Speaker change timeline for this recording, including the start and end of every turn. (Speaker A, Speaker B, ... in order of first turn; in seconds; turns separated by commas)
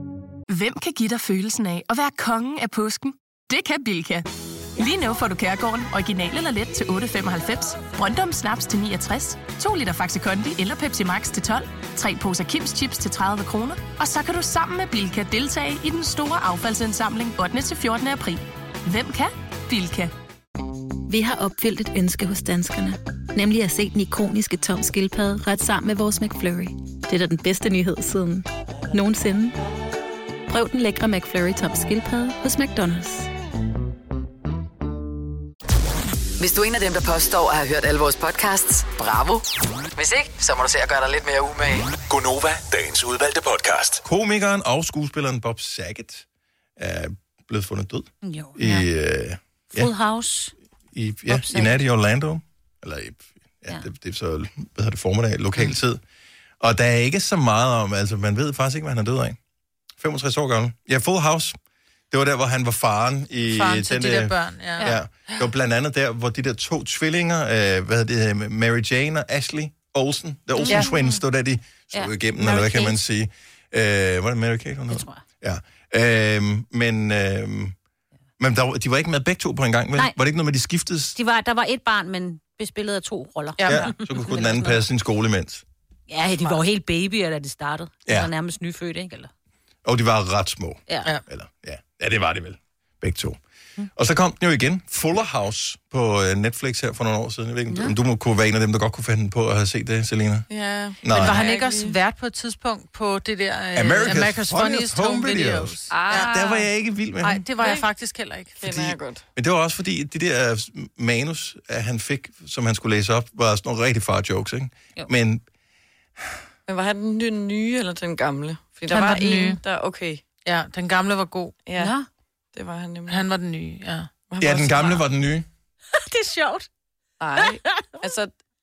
Speaker A: 0.5-20.1, Speaker B: 21.1-29.6, Speaker B: 30.5-33.3, Speaker C: 36.4-39.4, Speaker C: 40.0-41.9, Speaker D: 42.1-44.0, Speaker E: 44.0-46.2, Speaker E: 46.8-49.9, Speaker F: 48.2-48.8, Speaker F: 49.7-50.5, Speaker E: 50.9-56.0, Speaker F: 51.3-51.8, Speaker E: 56.6-59.4, Speaker E: 60.0-61.6, Speaker E: 62.1-77.8, Speaker G: 63.5-65.5, Speaker F: 70.6-71.2, Speaker F: 71.9-73.0, Speaker F: 74.9-75.2, Speaker E: 78.4-81.2, Speaker F: 81.2-84.8, Speaker G: 83.6-83.9, Speaker E: 83.7-85.6, Speaker F: 86.1-89.3, Speaker E: 89.8-93.4, Speaker E: 94.0-100.5, Speaker H: 100.5-102.0, Speaker E: 101.0-101.5, Speaker G: 101.1-106.7, Speaker E: 103.8-107.5, Speaker H: 105.9-106.5, Speaker G: 107.2-108.9, Speaker H: 108.6-109.2, Speaker E: 108.6-115.4, Speaker H: 116.7-120.2, Speaker G: 118.9-119.6, Speaker G: 120.5-121.6, Speaker H: 121.7-121.9, Speaker F: 121.8-122.1, Speaker H: 122.5-123.2, Speaker G: 123.1-124.1, Speaker H: 124.3-124.9, Speaker E: 124.4-125.5, Speaker G: 124.6-125.0, Speaker G: 126.2-126.6, Speaker H: 127.2-128.3